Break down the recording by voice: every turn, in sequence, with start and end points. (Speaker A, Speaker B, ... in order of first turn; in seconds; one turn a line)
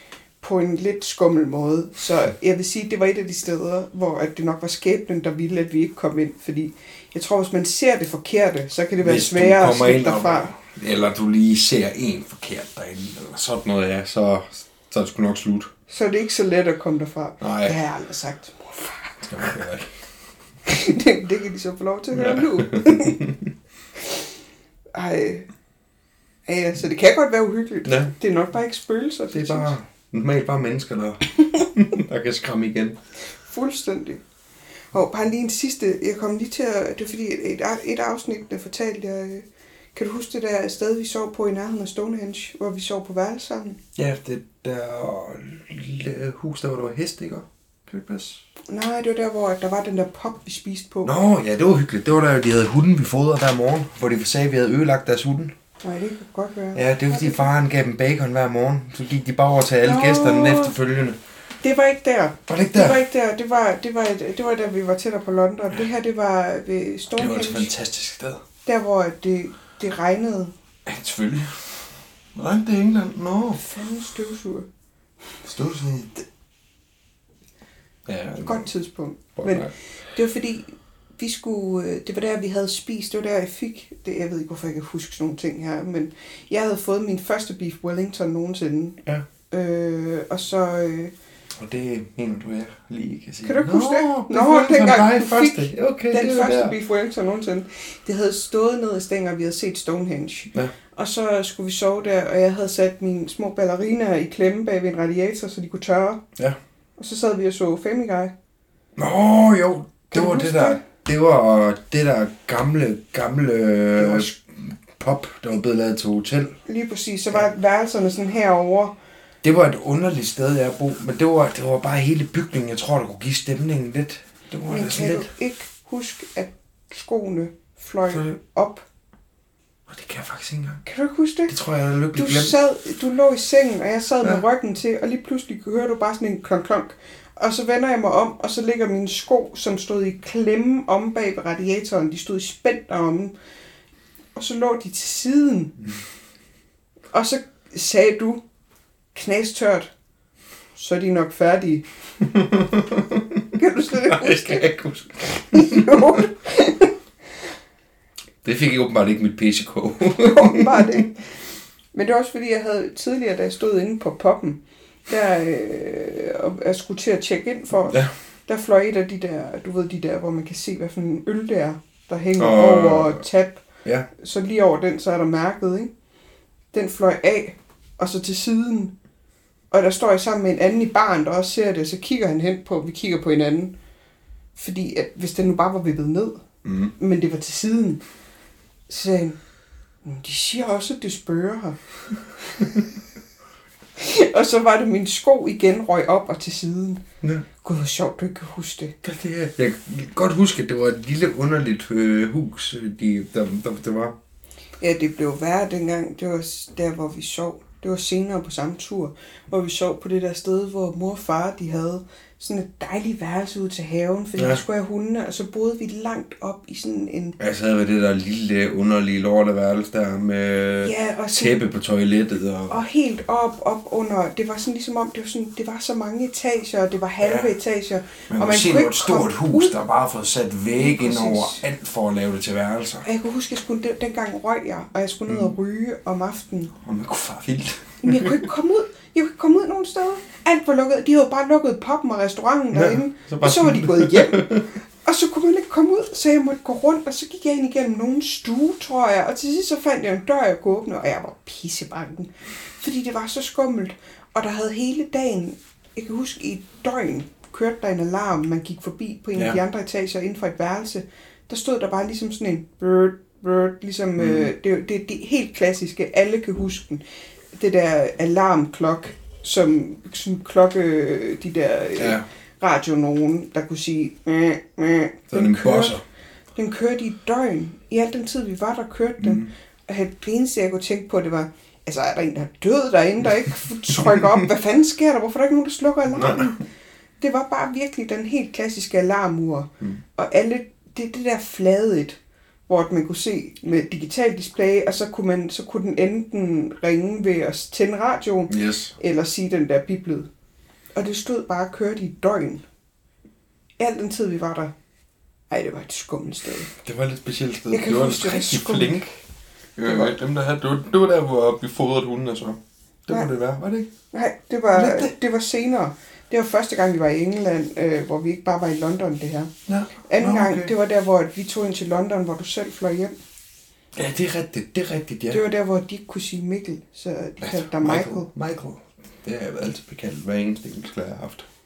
Speaker A: 0.4-10.5
Speaker B: 9.0-15.7
Speaker A: 15.9-19.4
Speaker B: 17.4-17.8
Speaker B: 19.3-20.0
Speaker A: 20.6-23.2
Speaker B: 22.1-23.4
Speaker A: 24.9-25.5
Speaker A: 26.4-29.7
Speaker B: 27.8-28.1
Speaker B: 29.3-33.0
Speaker A: 33.3-34.2
Speaker A: 34.9-43.8
Speaker B: 44.0-48.4
Speaker A: 48.7-51.1
Speaker B: 51.0-55.5
Speaker A: 55.8-57.5
Speaker B: 56.7-61.2
Speaker A: 59.8-60.7
Speaker A: 61.6-67.7
Speaker B: 62.5-63.0
Speaker B: 67.1-68.4
Speaker A: 68.6-70.5
Speaker B: 70.8-73.6
Speaker A: 73.6-74.7
Speaker B: 75.4-76.2
Speaker B: 78.0-78.7
Speaker A: 78.4-89.0
Speaker B: 79.4-79.7
Speaker A: 89.5-91.1
Speaker B: 91.5-96.7
Speaker A: 93.4-106.2
Speaker A: 107.0-108.3
Speaker B: 109.0-116.5
Speaker A: 110.1-110.8
Speaker A: 114.0-114.3
Speaker A: 116.7-119.0
Speaker B: 119.4-125.3
Speaker A: 124.7-128.8
Speaker B: 128.1-128.4
Speaker B: 129.9-130.8
Speaker A: 130.8-131.5
Speaker B: 131.5-132.5
Speaker A: 132.1-143.3
Speaker A: 144.3-145.7
Speaker A: 147.1-148.4
Speaker A: 149.1-149.9
Speaker A: 150.7-151.8
Speaker B: 152.3-153.4
Speaker A: 153.5-154.7
Speaker B: 154.0-156.2
Speaker A: 155.5-156.9
Speaker B: 158.4-161.0
Speaker A: 160.2-161.2
Speaker A: 161.9-175.9
Speaker B: 172.4-173.2
Speaker A: 176.7-178.9
Speaker A: 179.7-183.7
Speaker A: 184.5-186.4
Speaker B: 186.6-186.9
Speaker A: 187.0-188.0
Speaker A: 188.9-189.4
Speaker A: 190.0-191.8
Speaker A: 193.9-197.0
Speaker B: 197.2-197.5
Speaker A: 197.6-199.0
Speaker B: 199.0-204.2
Speaker A: 204.8-217.4
Speaker B: 217.4-222.8
Speaker A: 220.8-221.6
Speaker A: 222.7-229.8
Speaker B: 227.2-227.5
Speaker B: 228.3-233.1
Speaker A: 230.8-231.6
Speaker A: 233.0-236.7
Speaker B: 236.8-238.4
Speaker A: 238.0-276.0
Speaker B: 242.7-244.7
Speaker B: 264.2-264.5
Speaker B: 271.9-272.2
Speaker B: 275.3-276.0
Speaker A: 276.5-286.6
Speaker B: 279.2-279.5
Speaker A: 287.2-300.3
Speaker B: 298.5-298.9
Speaker A: 300.9-302.6
Speaker A: 303.8-304.7
Speaker A: 305.5-306.7
Speaker B: 306.8-309.1
Speaker A: 307.7-309.1
Speaker B: 309.8-313.9
Speaker A: 309.8-310.2
Speaker A: 314.1-319.5
Speaker B: 314.7-315.1
Speaker B: 319.7-320.7
Speaker A: 320.1-323.1
Speaker B: 323.9-325.4
Speaker A: 325.3-328.3
Speaker B: 327.4-331.5